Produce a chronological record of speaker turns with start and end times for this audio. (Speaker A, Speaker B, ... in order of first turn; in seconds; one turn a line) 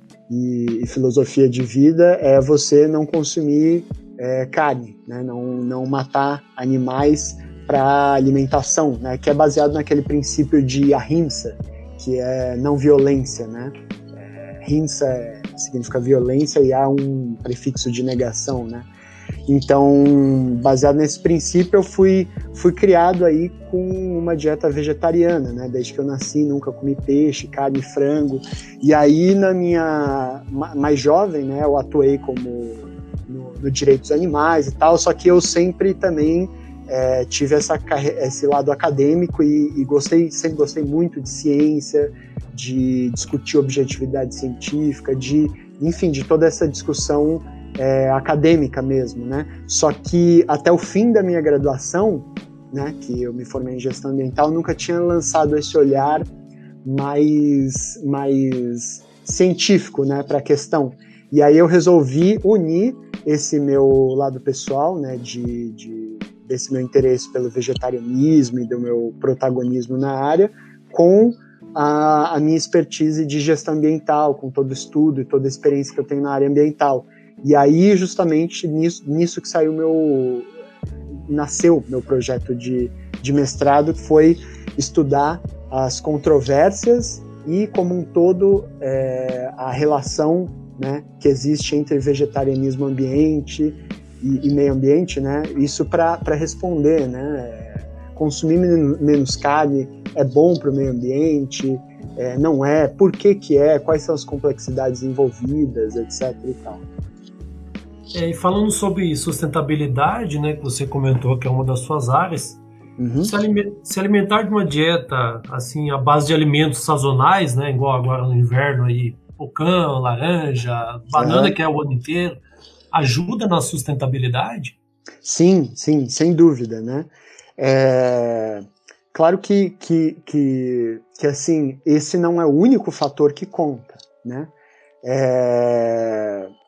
Speaker A: 0.3-18.9
Speaker A: 19.5-56.2
Speaker A: 56.8-80.5
Speaker A: 81.3-106.9
Speaker B: 108.1-112.6
Speaker A: 113.0-113.3
Speaker B: 113.2-122.4
Speaker A: 121.2-121.5
Speaker B: 122.9-124.8
Speaker A: 125.2-134.5
Speaker A: 135.0-136.5